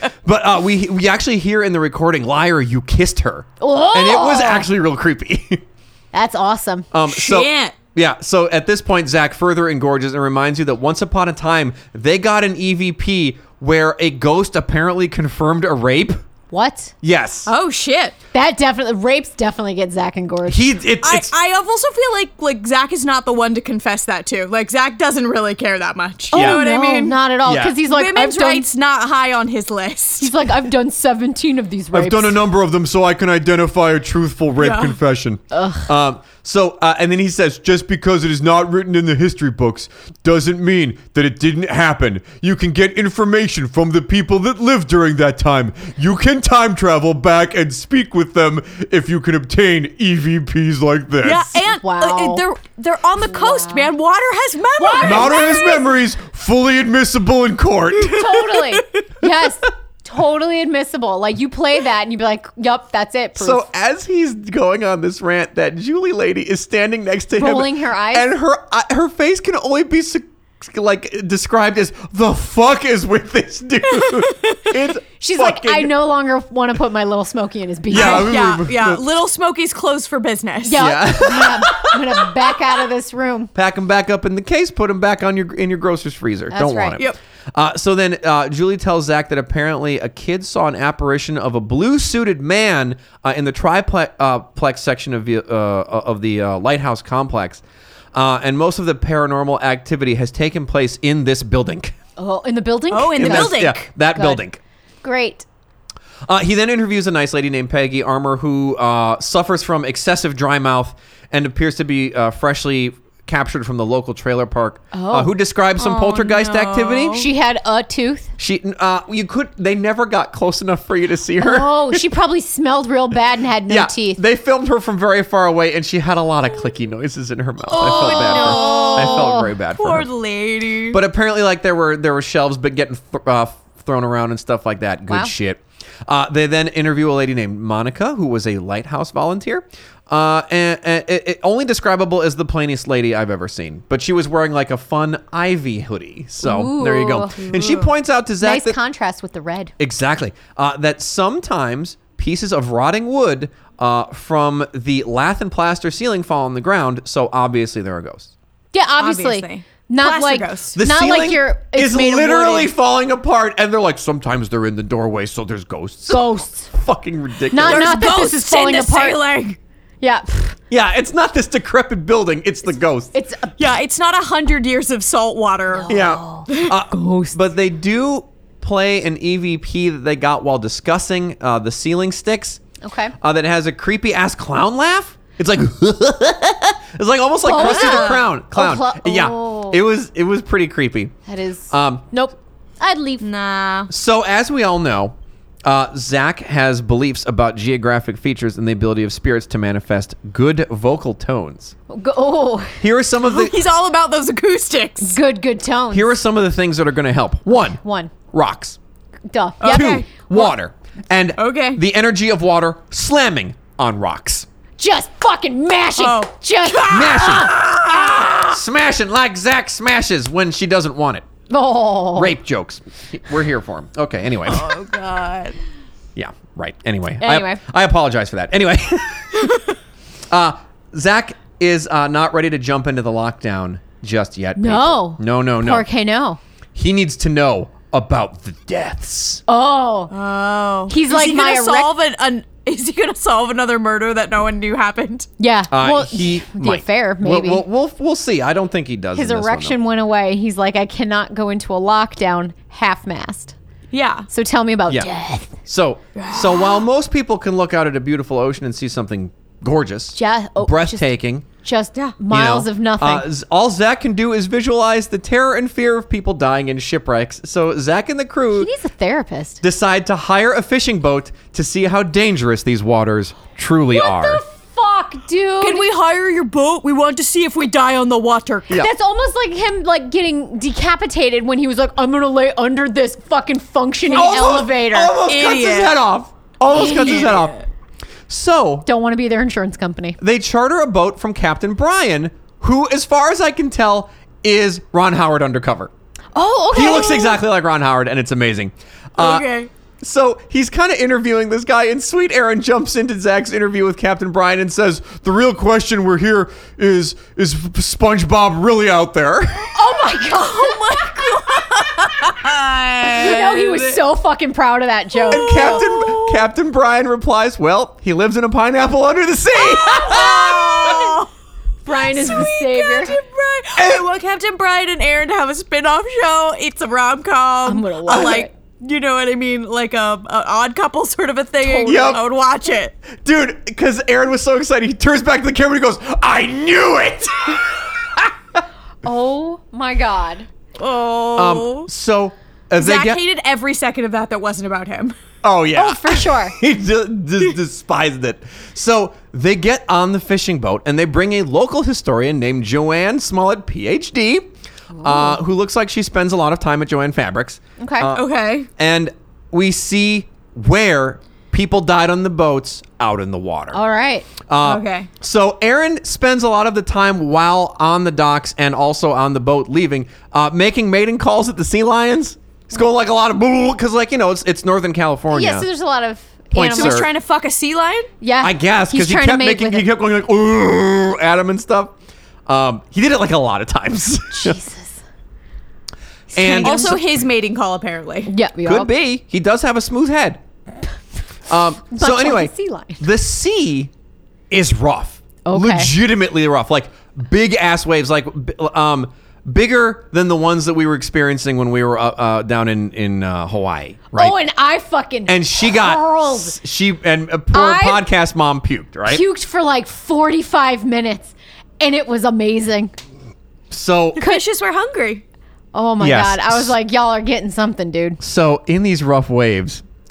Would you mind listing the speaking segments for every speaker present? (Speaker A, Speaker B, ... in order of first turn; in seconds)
Speaker A: 0.2-5.6, 6.9-16.2, 17.0-17.5, 20.5-21.3, 26.3-26.6, 27.5-27.8, 31.9-51.6, 55.0-58.5, 63.4-75.9, 77.9-79.0, 80.8-82.3, 83.5-97.6, 98.1-101.9, 103.2-104.6, 106.3-117.2, 118.4-122.0, 123.7-130.1, 130.9-148.8, 149.8-158.3, 160.8-168.0, 170.7-173.1, 175.9-182.6, 183.2-191.1, 191.7-192.1, 193.9-195.1, 195.7-201.7, 202.8-203.6, 205.9-208.8, 209.7-214.5, 216.9-221.3, 222.2-224.8, 226.2-229.6, 230.3-235.9, 236.8-239.4, 245.7-249.8, 254.9-261.5, 262.3-268.7, 269.6-274.4, 284.1-287.6, 288.3-288.9, 290.2-295.9, 296.7-299.5, 300.0-309.8, 315.3-321.2, 323.8-324.1, 328.1-328.4, 331.8-332.2, 333.2-338.6, 341.4-343.2, 345.4-354.5, 355.0-363.8, 364.5-375.7, 376.5-377.1, 378.4-381.9, 382.5-384.6, 386.3-387.2, 388.6-390.4, 391.5-393.9, 394.5-404.4, 405.3-409.2, 413.7-414.2, 416.0-416.7, 418.2-419.8
Speaker B: 3.6-4.7, 6.1-6.9, 16.5-16.9, 18.3-20.7, 26.3-28.7, 30.2-32.4, 35.5-35.9, 51.7-52.4, 53.3-53.9, 54.8-55.8, 58.1-63.7, 67.4-68.3, 75.2-78.3, 80.6-83.5, 86.5-87.0, 102.2-104.4, 105.0-105.5, 114.9-115.3, 117.2-118.3, 121.4-124.2, 127.7-129.5, 146.4-147.5, 148.4-149.7, 158.7-162.7, 166.1-166.7, 167.5-169.2, 170.0-170.6, 173.1-173.7, 175.7-177.4, 182.8-183.1, 187.4-189.8, 191.3-193.3, 201.9-202.8, 205.0-206.1, 207.7-208.1, 209.3-210.1, 214.8-218.4, 221.5-222.3, 227.2-227.6, 234.6-236.4, 239.5-240.1, 240.9-241.9, 245.4-247.7, 249.1-253.6, 254.3-255.6, 260.1-261.1, 261.6-263.3, 268.6-269.6, 273.9-275.9, 278.7-285.2, 286.7-287.3, 288.9-290.2, 296.4-297.4, 309.8-311.6, 313.1-315.8, 321.9-323.1, 327.6-328.5, 331.6-332.2, 339.0-340.5, 345.8-346.6, 354.9-355.4, 357.8-358.1, 363.7-364.3, 375.3-377.0, 378.2-379.9, 384.3-385.0, 386.3-386.9, 388.3-388.9, 391.9-393.0, 395.4-395.9, 404.1-406.6, 407.5-408.0, 409.1-412.9, 415.7-418.2
Speaker C: 7.1-7.8, 17.5-18.2, 21.0-27.2, 27.8-30.4, 34.6-35.0, 51.2-55.8, 58.4-59.0, 74.1-74.7, 77.9-80.8, 102.9-103.9, 115.8-117.3, 127.7-131.0, 147.5-147.9, 159.0-160.8, 167.6-169.6, 173.6-175.9, 176.5-176.8, 187.5-188.2, 193.2-193.9, 203.3-205.2, 209.6-210.5, 211.4-211.8, 216.0-218.2, 224.5-225.6, 240.1-245.3, 253.9-254.3, 256.2-256.8, 275.6-278.8, 285.2-286.0, 286.8-287.6, 299.2-299.7, 310.3-314.0, 315.2-316.4, 319.6-321.3, 321.9-332.9, 340.8-341.9, 342.8-345.2, 358.1-358.7, 364.6-365.1, 376.6-378.1, 386.6-388.3, 414.2-415.2